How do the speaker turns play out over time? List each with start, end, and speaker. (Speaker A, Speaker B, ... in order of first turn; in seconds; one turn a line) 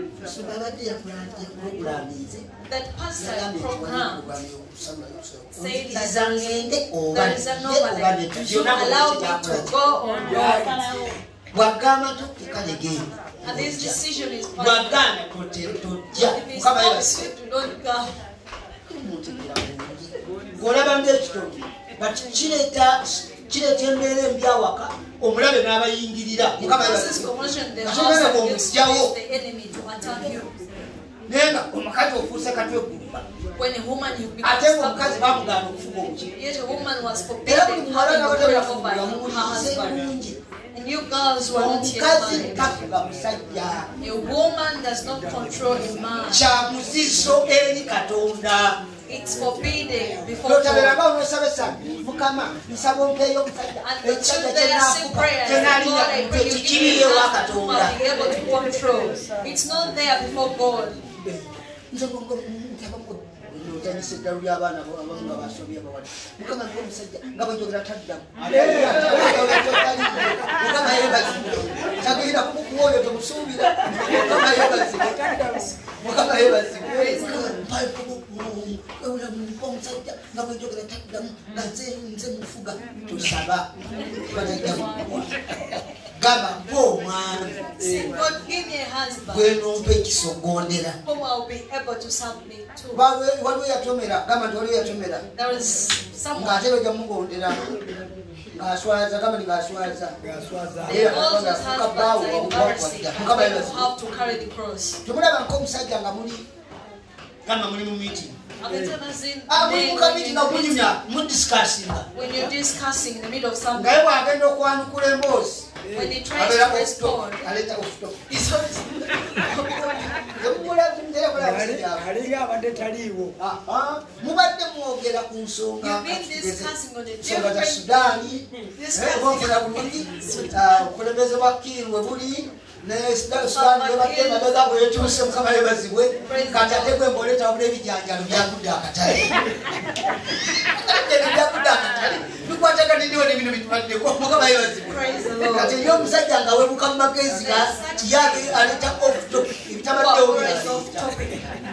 Speaker A: 0.2-2.5
Speaker B: 2.7-4.3
Speaker A: 3.2-9.7
Speaker B: 5.5-10.9
Speaker A: 10.2-10.9
Speaker C: 10.4-10.9
Speaker A: 11.5-14.0
Speaker B: 13.4-15.1
Speaker A: 14.6-17.3
Speaker B: 16.1-18.1
Speaker A: 18.8-29.1
Speaker B: 26.6-30.6
Speaker A: 31.3-33.2
Speaker B: 33.5-35.3
Speaker A: 34.4-36.3
Speaker B: 36.3-40.0
Speaker A: 37.4-40.4
Speaker B: 40.7-42.8
Speaker A: 41.4-43.9
Speaker B: 44.0-46.5
Speaker A: 46.2-48.8
Speaker B: 49.1-51.0
Speaker A: 50.4-58.0
Speaker B: 53.8-61.0
Speaker A: 61.0-75.3
Speaker C: 68.5-69.9
Speaker C: 71.6-72.0
Speaker C: 73.9-75.7
Speaker A: 76.0-85.3
Speaker B: 76.9-77.5
Speaker B: 84.0-84.4
Speaker A: 86.2-88.0
Speaker B: 87.8-90.0
Speaker A: 89.3-91.0
Speaker B: 91.0-93.0
Speaker A: 92.9-95.2
Speaker B: 95.3-96.6
Speaker A: 96.3-97.7
Speaker A: 98.5-100.2
Speaker C: 100.2-101.0
Speaker A: 100.8-103.9
Speaker B: 100.8-105.0
Speaker A: 105.0-106.4
Speaker A: 107.4-108.4
Speaker B: 108.6-110.9
Speaker C: 108.7-108.9
Speaker A: 109.5-112.1
Speaker B: 112.1-114.0
Speaker A: 113.7-118.3
Speaker C: 115.8-116.2
Speaker B: 115.9-117.5
Speaker B: 118.3-120.2
Speaker A: 120.3-122.1
Speaker C: 121.3-123.3
Speaker A: 123.4-139.4
Speaker B: 125.8-130.7
Speaker B: 133.5-135.3
Speaker B: 136.2-137.0
Speaker A: 140.4-151.2
Speaker B: 144.9-146.0
Speaker B: 147.4-148.7
Speaker B: 149.9-151.5